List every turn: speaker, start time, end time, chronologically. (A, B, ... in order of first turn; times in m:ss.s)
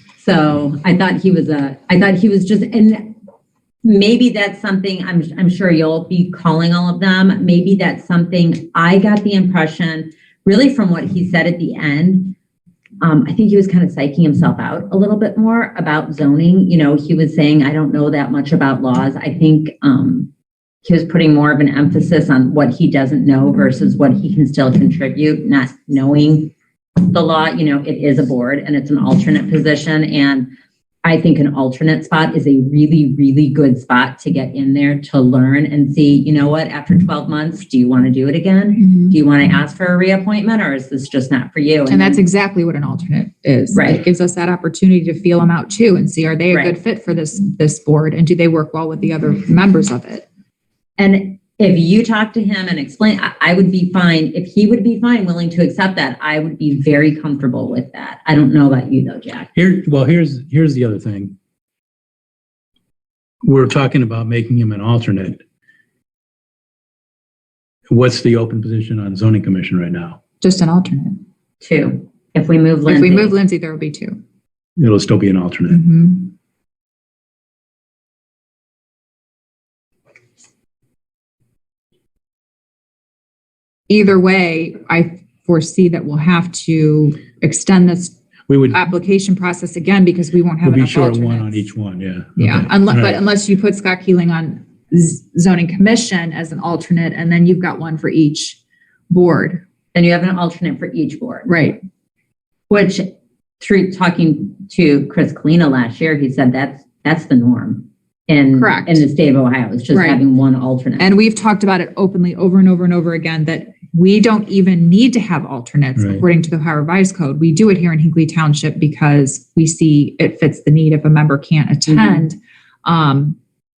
0:00.2-0:03.2 A
0:03.8-0:12.4 A
0:13.0-0:20.3 A
0:20.8-0:30.5 A
0:31.0-0:42.2 A
0:38.8-0:39.2 B
0:41.9-0:50.2 B
0:43.7-0:44.0 A
0:46.5-0:46.8 A
0:51.0-0:59.5 A
0:59.6-1:01.4 C
1:03.4-1:05.4 C
1:07.9-1:10.2 C
1:10.4-1:11.2 B
1:11.6-1:13.4 A
1:12.9-1:14.2 B
1:14.8-1:15.8 C
1:15.7-1:16.3 B
1:23.9-1:28.2 B
1:28.5-1:28.8 C
1:28.7-1:31.7 B
1:30.6-1:33.2 C
1:32.4-1:38.6 B
1:39.1-1:39.6 B
1:39.9-1:41.5 A
1:41.5-1:41.8 B
1:42.7-1:51.1 A
1:48.6-1:49.0 B
1:49.9-1:50.2 B
1:51.0-2:03.4 B
1:56.0-1:56.2 C
2:01.9-2:02.3 A